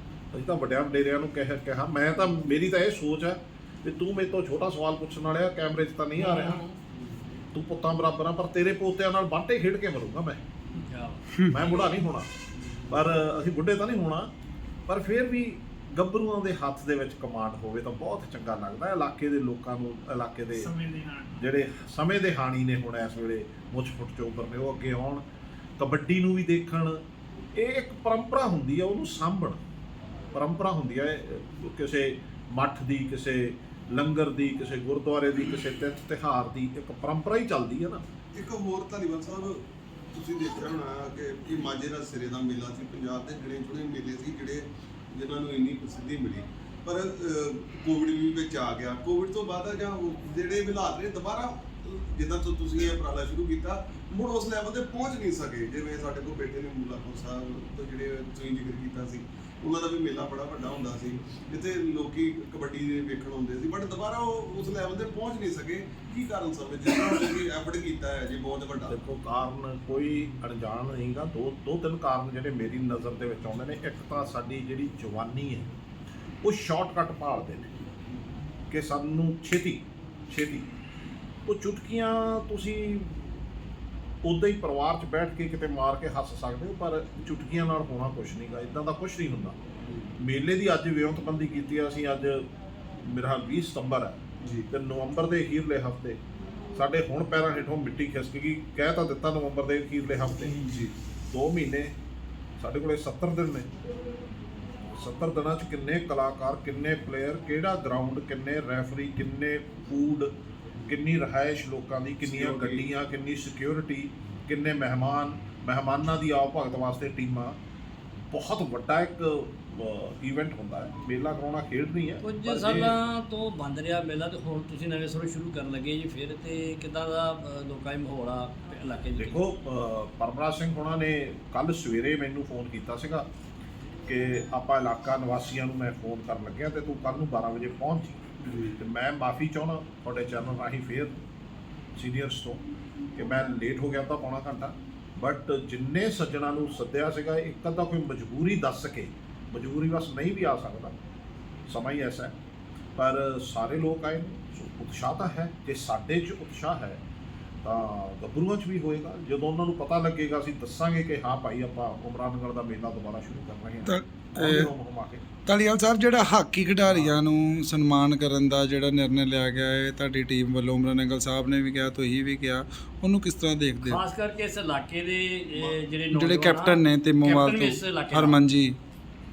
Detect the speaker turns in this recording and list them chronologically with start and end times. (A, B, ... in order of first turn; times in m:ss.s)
0:00.3-0:06.7 A
0:07.5-0:10.4 A
0:10.8-0:11.9 B
0:11.5-0:12.3 A
0:12.9-0:14.3 A
0:14.9-0:25.2 A
0:25.8-0:27.0 A
0:27.6-0:29.6 A
0:30.3-0:38.0 A
0:38.4-1:09.0 C
1:08.9-1:15.7 A
1:16.4-1:17.8 A
1:18.7-1:20.7 A
1:21.5-1:23.4 A
1:24.2-1:29.6 A
1:30.2-1:32.5 A
1:33.0-1:36.2 A
1:36.8-1:40.6 A
1:40.7-1:40.9 C
1:41.3-1:42.0 A
1:42.6-1:43.7 A
1:45.0-1:50.3 A
1:50.9-1:57.6 A
1:52.4-1:52.8 C
1:58.3-2:03.0 A
2:02.2-2:09.4 B
2:09.2-2:13.3 A
2:14.1-2:21.2 A
2:18.4-2:18.8 C
2:22.0-2:22.6 A
2:23.2-2:31.0 A
2:31.7-2:32.3 A
2:33.0-2:37.0 A
2:37.6-2:45.2 A
2:43.9-2:44.7 D
2:45.5-2:54.0 D
2:53.9-2:58.4 B
2:56.1-2:58.8 D